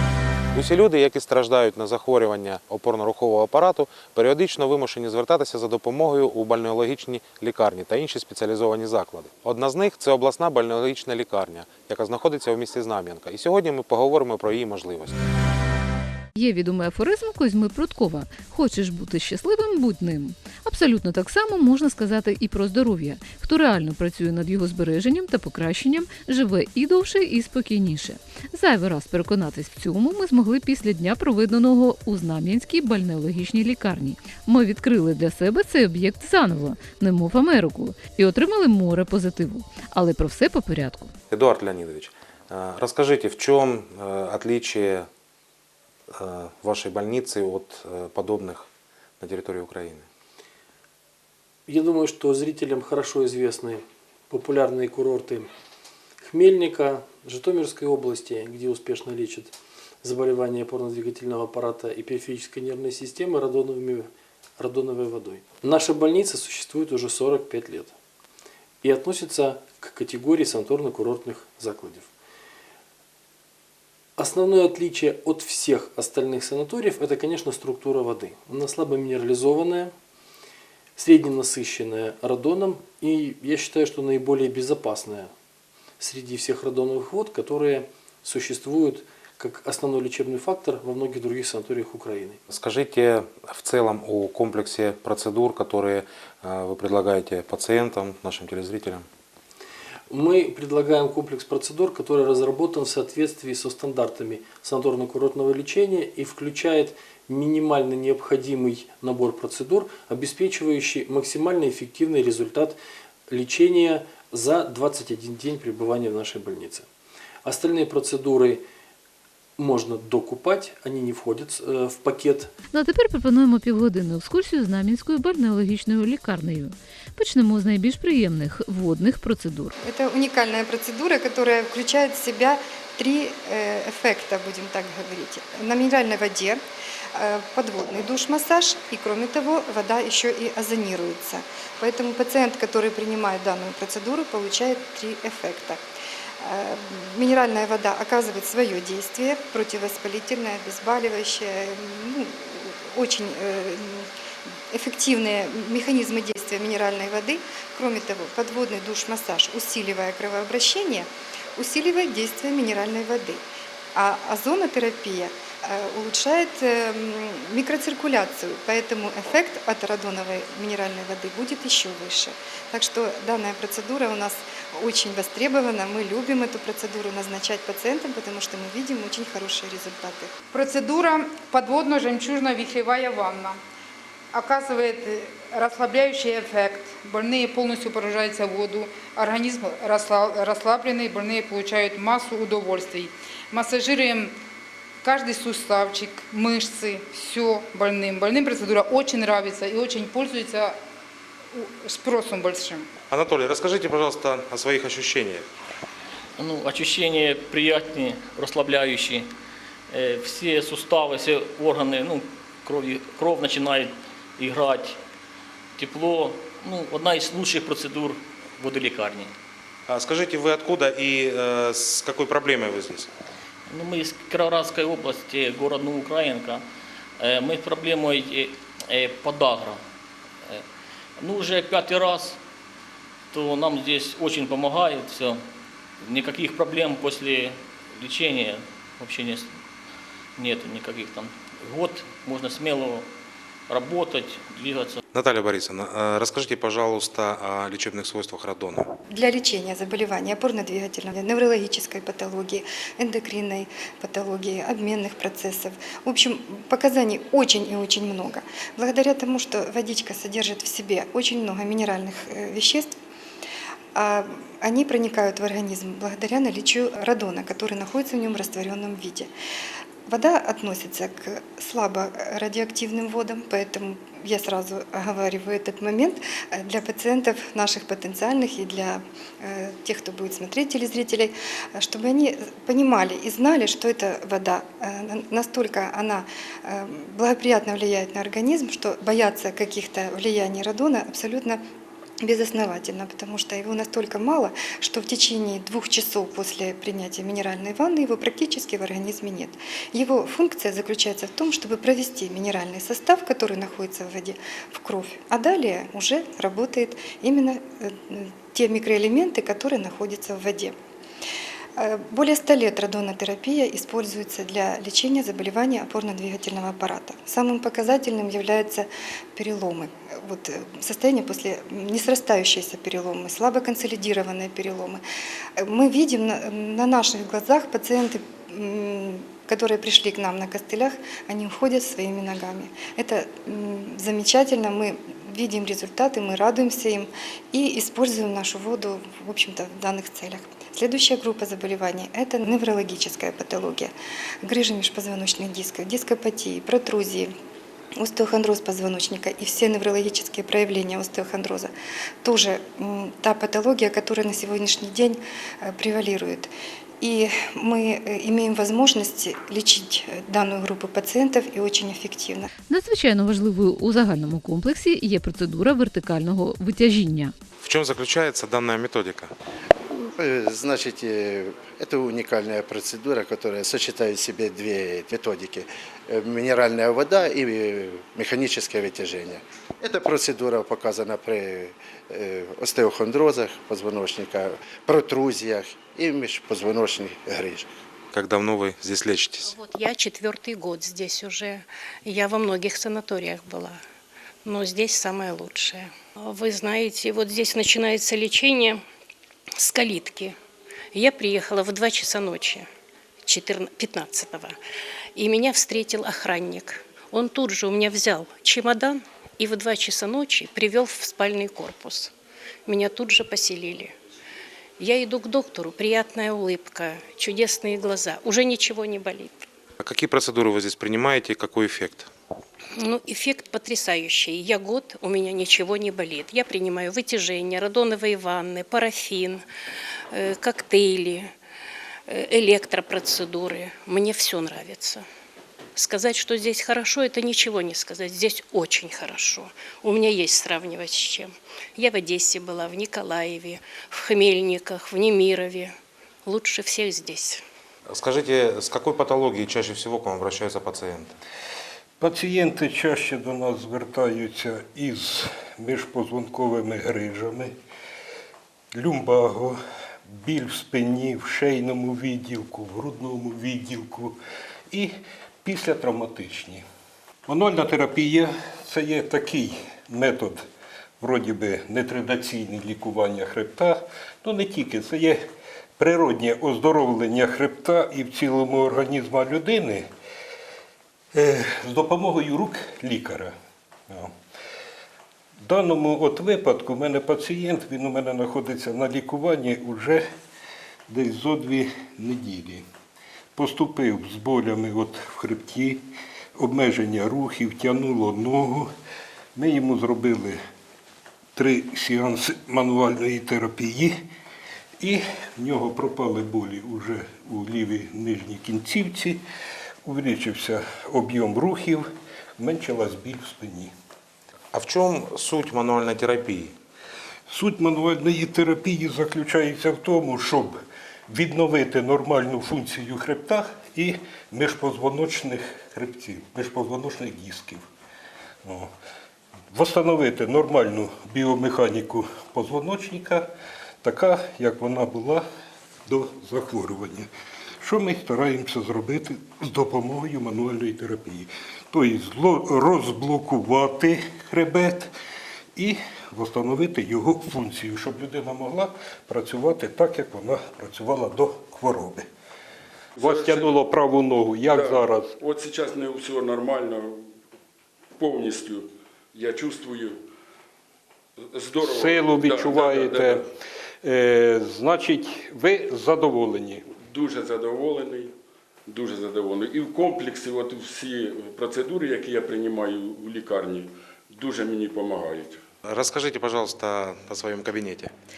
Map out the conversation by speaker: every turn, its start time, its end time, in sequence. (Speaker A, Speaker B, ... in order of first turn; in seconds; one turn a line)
Speaker A: 0.5-15.2
Speaker B: 16.3-41.1
Speaker A: 41.3-45.1
Speaker A: 46.1-48.7
Speaker A: 49.2-50.0
Speaker C: 51.7-55.5
Speaker C: 56.2-67.9
Speaker C: 68.8-72.1
Speaker C: 74.2-79.9
Speaker C: 81.0-85.3
Speaker C: 86.0-92.4
Speaker A: 92.5-99.0
Speaker C: 100.1-112.8
Speaker C: 113.3-116.9
Speaker C: 117.4-118.6
Speaker C: 119.6-122.5
Speaker B: 122.7-129.7
Speaker D: 129.8-136.6
Speaker D: 137.1-145.8
Speaker D: 146.4-154.1
Speaker D: 154.7-180.3
Speaker E: 180.5-183.6
Speaker E: 184.3-194.3
Speaker E: 195.0-200.8
Speaker E: 201.5-202.9
Speaker A: 203.1-205.4
Speaker F: 206.4-209.3
Speaker F: 209.9-215.0
Speaker F: 215.8-219.3
Speaker A: 219.9-223.1
Speaker F: 223.7-226.6
Speaker F: 227.2-229.8
Speaker F: 231.2-232.4
Speaker F: 233.3-235.4
Speaker F: 236.0-239.6
Speaker F: 240.3-243.1
Speaker F: 243.7-245.0
Speaker A: 245.1-248.9
Speaker D: 249.1-262.9
Speaker D: 263.9-269.3
Speaker D: 270.1-291.6
Speaker D: 292.2-310.7
Speaker D: 311.8-325.0
Speaker D: 325.6-343.9
Speaker D: 344.4-347.3
Speaker D: 348.0-351.7
Speaker D: 352.2-356.5
Speaker D: 357.0-362.5
Speaker B: 362.7-367.3
Speaker A: 367.6-369.3
Speaker G: 370.2-387.6
Speaker A: 388.1-389.6
Speaker H: 389.5-393.8
Speaker H: 394.4-398.8
Speaker H: 399.6-400.4
Speaker H: 400.9-402.7
Speaker H: 403.2-404.6
Speaker H: 405.1-412.1
Speaker H: 412.7-413.9
Speaker H: 414.8-419.4
Speaker A: 419.8-422.1
Speaker H: 422.7-429.4
Speaker H: 430.1-431.3
Speaker H: 432.1-435.1
Speaker H: 435.8-447.4
Speaker A: 447.9-451.1
Speaker I: 452.0-457.5
Speaker I: 458.7-459.6
Speaker I: 460.1-464.1
Speaker I: 464.7-466.6
Speaker I: 467.3-470.4
Speaker I: 471.0-475.2
Speaker I: 475.8-479.9
Speaker I: 481.1-483.3
Speaker I: 483.9-484.1
Speaker I: 485.4-490.1
Speaker I: 490.9-492.6
Speaker I: 493.3-495.8
Speaker I: 496.4-498.7
Speaker I: 499.3-500.4
Speaker I: 501.4-504.0
Speaker I: 504.8-509.2
Speaker I: 509.8-513.7
Speaker A: 514.5-516.5
Speaker I: 517.3-527.6
Speaker I: 528.4-528.7
Speaker I: 529.5-533.3
Speaker I: 533.8-535.2
Speaker I: 535.9-537.1
Speaker I: 537.6-544.9
Speaker I: 545.5-552.0
Speaker J: 553.0-553.6
Speaker I: 553.0-555.1
Speaker J: 554.5-557.1
Speaker J: 558.0-560.0
Speaker J: 561.3-563.2
Speaker I: 561.6-563.2
Speaker I: 563.8-566.6
Speaker J: 566.8-568.1
Speaker J: 568.7-575.4
Speaker A: 575.6-577.9